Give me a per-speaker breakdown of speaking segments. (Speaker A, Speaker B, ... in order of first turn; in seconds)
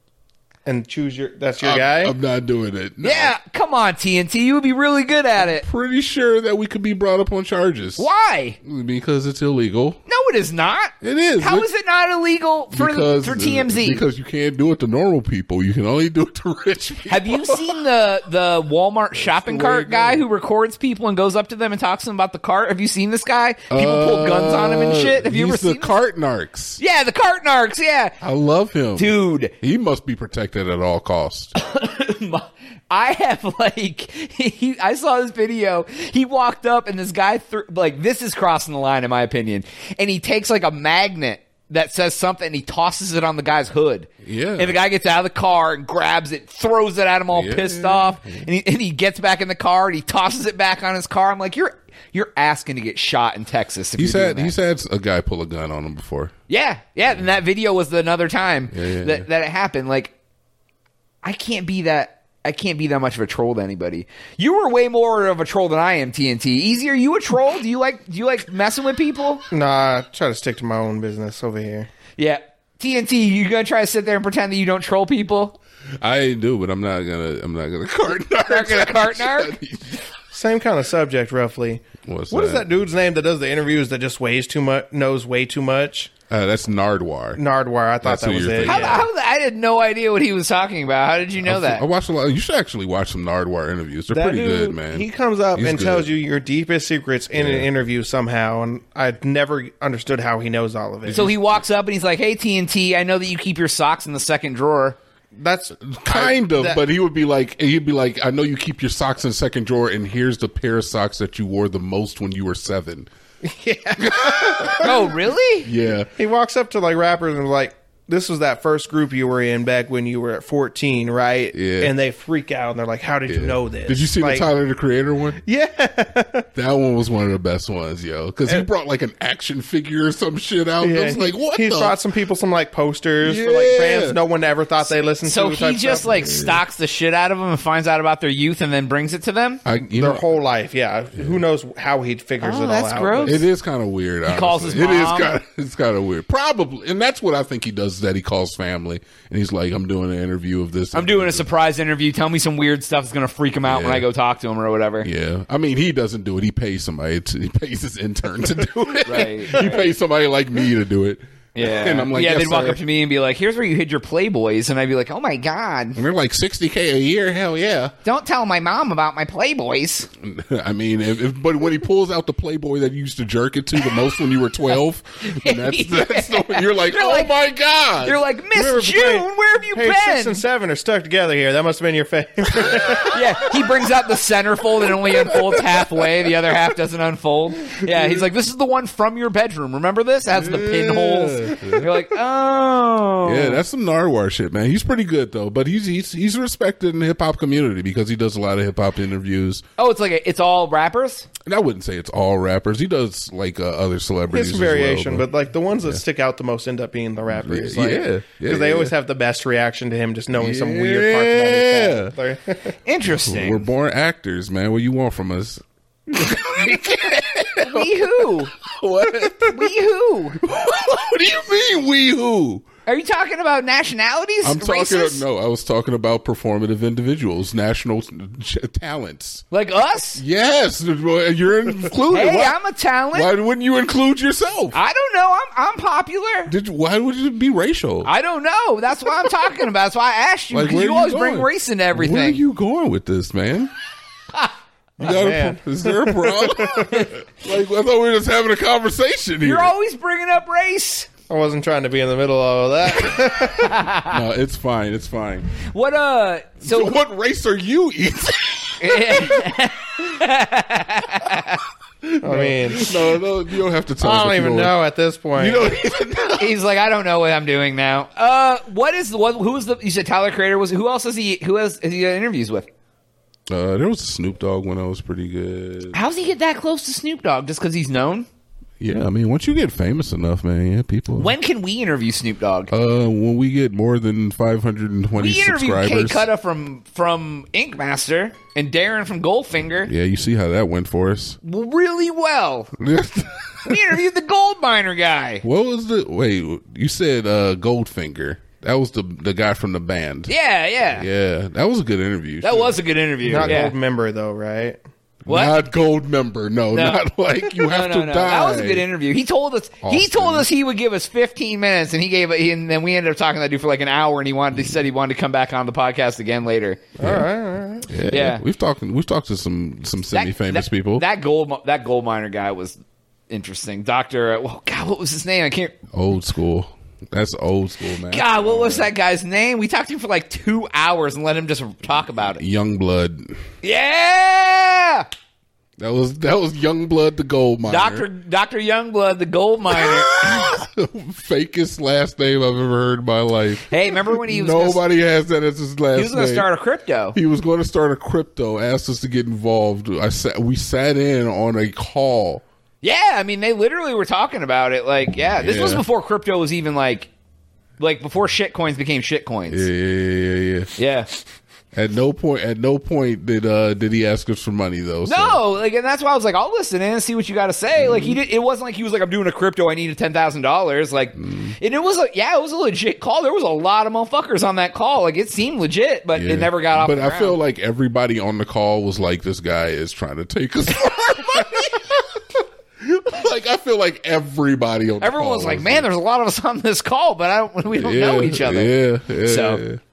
Speaker A: 0.7-2.1, 69.5-71.9, 80.3-86.1, 87.3-89.1, 94.1-101.3, 105.3-106.8, 113.4-115.1, 116.2-124.5, 125.4-126.5, 130.8-136.6, 139.9-143.4, 178.5-183.2, 204.3-212.7, 245.0-247.1, 251.3-253.8, 262.2-263.1, 264.0-265.8, 303.2-304.8, 317.0-317.9
Speaker B: 1.6-3.4, 5.4-8.1, 8.6-10.0, 11.0-11.7, 12.7-17.8, 19.2-20.2, 23.7-26.8, 28.2-31.5, 44.2-44.8, 47.3-48.5, 54.0-56.3, 58.7-59.2, 76.0-80.0, 82.0-82.7, 86.3-87.4, 88.0-89.1, 91.4-96.1, 97.3-97.7, 101.0-101.6, 105.8-113.1, 114.0-114.9, 115.6-116.1, 121.5-121.9, 123.3-125.4, 126.5-132.0, 133.2-134.2, 139.7-140.3, 143.2-151.5, 153.6-154.1, 155.0-162.8, 166.0-167.9, 170.2-178.2, 182.6-182.9, 183.6-183.8, 184.9-186.3, 187.9-188.2, 190.3-191.9, 193.2-199.6, 201.5-205.3, 207.3-208.9, 210.3-212.2, 213.2-219.7, 220.4-222.7, 224.4-229.4, 230.2-232.6, 233.1-234.8, 236.5-238.1, 240.5-243.7, 245.0-249.7, 254.1-255.5, 256.6-259.5, 262.0-264.8, 265.4-266.6, 273.5-276.0, 278.8-281.4, 282.7-286.3, 289.9-291.4, 292.8-294.0, 295.4-300.3, 300.9-303.7, 305.3-308.9, 309.8-310.5, 317.0-317.2, 317.9-321.1, 325.9-328.9, 332.2-333.4, 335.8-338.1, 339.7-346.5, 347.1-352.4, 355.4-355.9, 359.5-360.7, 361.7-365.4, 367.8-368.2, 371.1-371.6, 376.1-382.1, 382.8-385.9, 387.7-389.8
Speaker C: 3.0-5.7, 8.0-8.6, 10.1-14.1, 17.1-26.0, 26.8-28.2, 28.9-29.5, 31.6-54.5, 56.5-60.1, 61.2-69.4, 72.2-75.6, 78.5-79.6, 88.6-91.8, 101.1-105.0, 114.8-115.7, 135.2-139.6, 142.4-143.5, 144.3-145.4, 150.9-155.1, 159.1-159.9, 161.6-166.0, 168.0-170.1, 175.2-177.4, 178.0-180.4, 183.1-193.6, 199.8-201.3, 212.8-213.7, 216.5-218.5, 219.4-220.4, 222.9-225.2, 229.5-230.2, 232.1-233.3, 234.7-236.5, 238.0-242.4, 249.4-251.1, 253.6-254.2, 255.7-257.0, 258.8-261.6, 266.4-272.7, 275.9-278.3, 281.1-282.7, 285.2-289.9, 291.4-292.7, 293.7-295.4, 300.3-301.1, 302.4-303.7, 305.3-305.6, 306.7-307.0, 307.6-316.8, 318.1-318.4, 320.1-322.8, 323.3-325.8, 328.1-332.4, 333.6-335.1, 337.7-340.5, 343.7-344.8, 345.9-347.2, 352.8-357.1, 357.8-359.6, 360.8-361.1, 365.1-377.4, 380.9-381.5, 385.0-389.6